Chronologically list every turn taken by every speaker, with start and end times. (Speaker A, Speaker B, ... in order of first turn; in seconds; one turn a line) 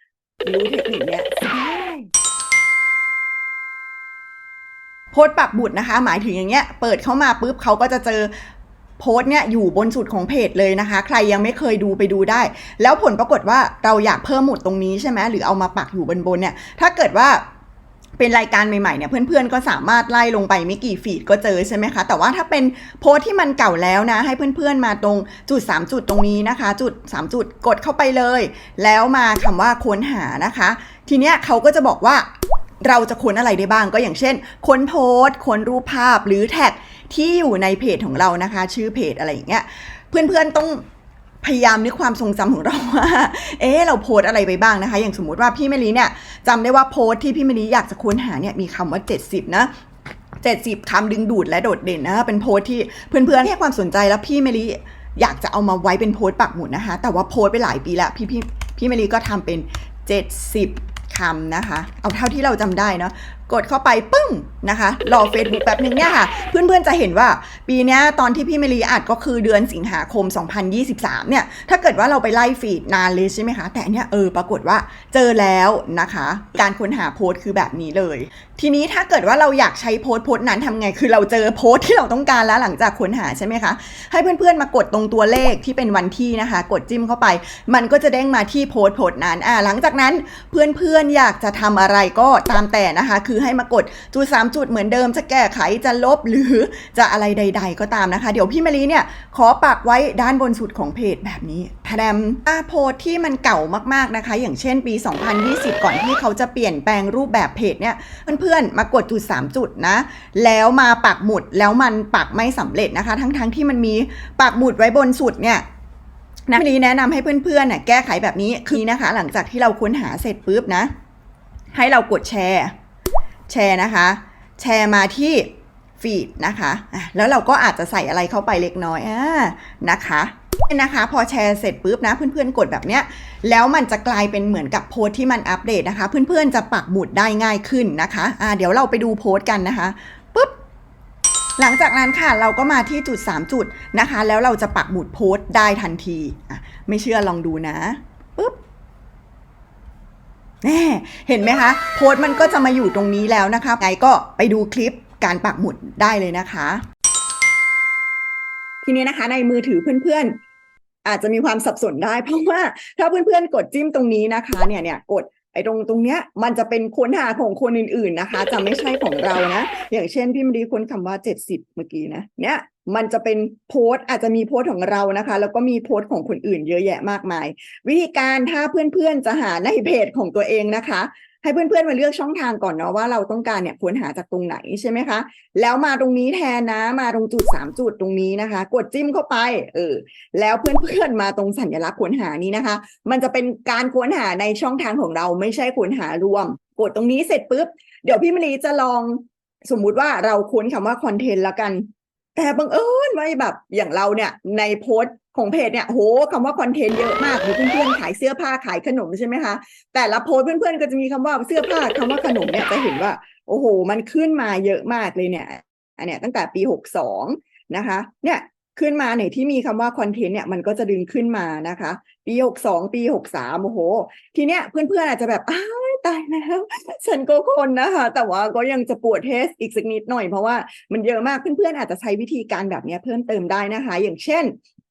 Speaker A: 0.5-2.1
Speaker A: 5.1-8.3
Speaker A: 9.0-17.4
Speaker A: 18.2-32.3
Speaker A: 32.8-40.9
Speaker A: 41.4-49.7
Speaker A: 50.4-115.7
Speaker A: 116.5-120.9
Speaker A: 121.7-122.7
Speaker A: 123.5-140.6
Speaker A: 141.6-148.6
Speaker A: 150.6-156.8
Speaker A: 158.8-160.4
Speaker A: 161.1-234.6